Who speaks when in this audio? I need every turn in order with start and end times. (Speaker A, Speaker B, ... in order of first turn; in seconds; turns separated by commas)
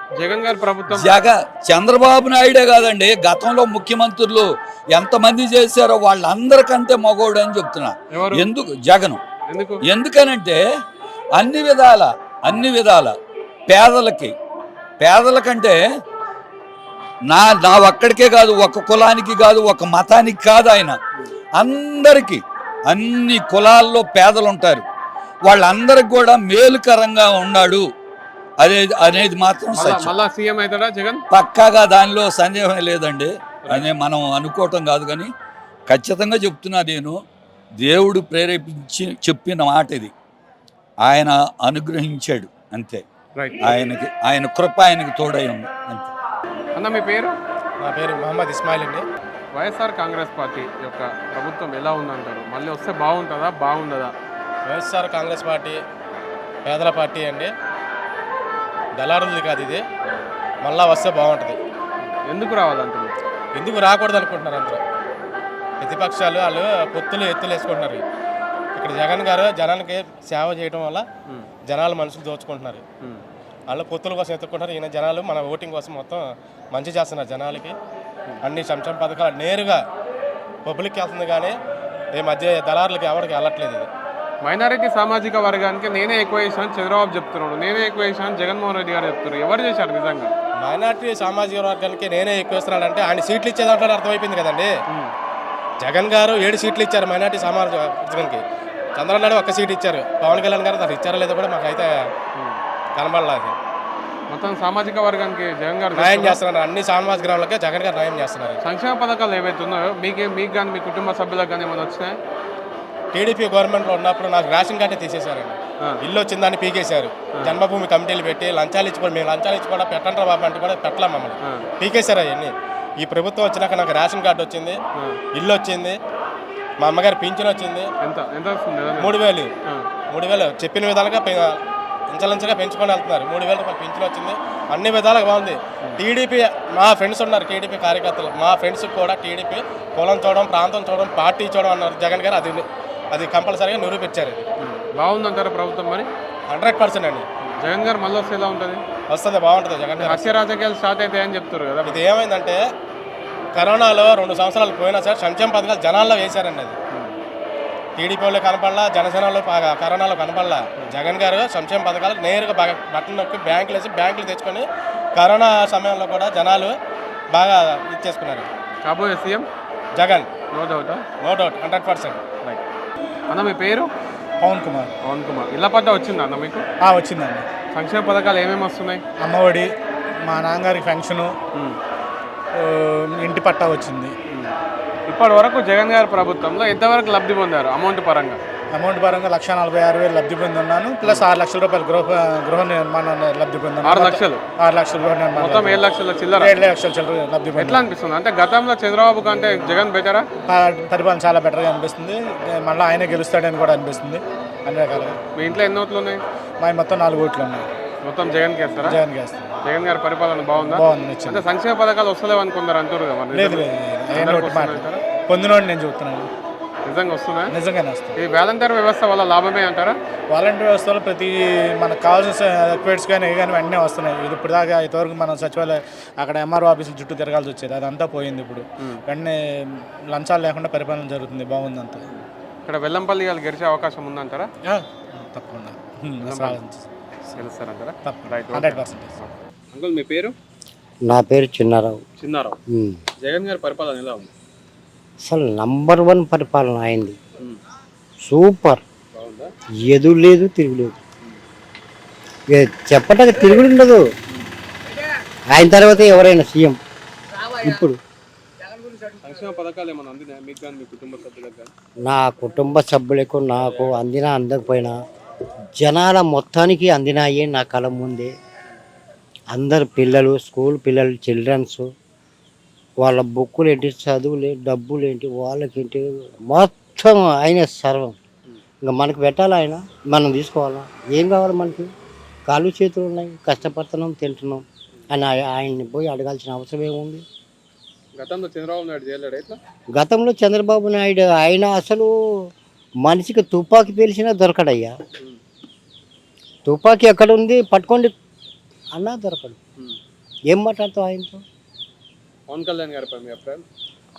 Speaker A: 0.2-1.1, Speaker B: 0.9-9.2, Speaker A: 8.1-8.5, Speaker A: 9.5-9.8, Speaker B: 9.9-10.6, Speaker B: 11.3-13.2, Speaker B: 13.7-14.3, Speaker B: 15.0-15.8, Speaker B: 17.3-21.0, Speaker B: 21.6-24.9, Speaker B: 25.5-27.8, Speaker B: 28.6-30.1, Speaker A: 29.7-31.2, Speaker B: 31.3-35.3, Speaker B: 35.9-37.1, Speaker B: 37.8-40.1, Speaker B: 41.0-43.0, Speaker A: 43.4-43.7, Speaker B: 43.6-46.1, Speaker A: 46.8-47.3, Speaker C: 47.8-49.0, Speaker A: 49.5-54.1, Speaker C: 54.7-55.8, Speaker C: 56.6-57.5, Speaker C: 59.0-59.8, Speaker C: 60.6-61.6, Speaker A: 62.3-63.1, Speaker C: 63.6-64.8, Speaker C: 65.8-68.0, Speaker C: 68.8-71.0, Speaker C: 71.7-72.8, Speaker C: 73.7-77.8, Speaker C: 78.4-79.8, Speaker C: 80.7-81.5, Speaker C: 82.1-83.9, Speaker A: 84.4-90.3, Speaker C: 90.6-94.7, Speaker C: 95.8-98.4, Speaker C: 99.0-102.1, Speaker C: 103.0-103.6, Speaker A: 104.3-106.4, Speaker C: 106.0-108.6, Speaker A: 108.6-112.2, Speaker C: 113.1-124.8, Speaker C: 125.3-126.0, Speaker C: 126.8-127.9, Speaker A: 128.0-129.2, Speaker C: 129.0-129.5, Speaker C: 130.1-144.4, Speaker A: 144.6-146.1, Speaker C: 146.5-147.3, Speaker A: 147.6-148.8, Speaker C: 149.1-150.4, Speaker A: 150.0-152.0, Speaker C: 151.8-152.6, Speaker C: 153.5-156.8, Speaker C: 158.0-166.7, Speaker C: 167.3-168.5, Speaker A: 168.8-169.5, Speaker C: 170.0-170.3, Speaker A: 170.5-171.0, Speaker C: 171.2-172.2, Speaker A: 173.3-173.9, Speaker D: 174.4-174.9, Speaker A: 175.0-176.7, Speaker D: 176.8-177.5, Speaker A: 177.7-179.0, Speaker D: 179.2-179.7, Speaker D: 180.2-181.4, Speaker D: 182.6-184.1, Speaker A: 185.1-188.4, Speaker D: 188.7-195.8, Speaker A: 193.8-194.4, Speaker A: 195.4-196.5, Speaker D: 196.4-197.8, Speaker A: 197.6-200.3, Speaker D: 200.5-205.2, Speaker A: 205.4-206.2, Speaker D: 206.6-207.7, Speaker A: 208.1-209.0, Speaker D: 208.9-209.5, Speaker A: 209.7-215.0, Speaker D: 210.6-211.4, Speaker D: 213.3-216.3, Speaker A: 216.8-217.5, Speaker D: 217.5-218.2, Speaker A: 218.2-220.0, Speaker D: 220.3-232.0, Speaker A: 232.1-234.5, Speaker D: 234.6-237.4, Speaker A: 236.2-236.6, Speaker A: 237.4-240.3, Speaker D: 238.1-239.2, Speaker E: 241.0-242.0, Speaker A: 242.2-242.6, Speaker E: 242.7-243.0, Speaker A: 243.2-244.3, Speaker E: 245.2-247.2, Speaker E: 248.2-248.8, Speaker A: 249.1-249.5, Speaker E: 249.8-250.9, Speaker E: 252.5-254.0, Speaker E: 255.5-256.8, Speaker E: 257.5-258.0, Speaker A: 259.2-261.7, Speaker E: 262.0-265.0, Speaker E: 265.8-268.3, Speaker E: 269.5-271.9, Speaker E: 273.0-278.2, Speaker E: 278.8-281.9, Speaker E: 282.5-287.2, Speaker A: 288.2-289.6, Speaker E: 289.9-292.1, Speaker E: 293.0-294.9, Speaker E: 296.7-298.1, Speaker E: 298.9-299.6, Speaker E: 300.5-301.4, Speaker A: 302.5-303.6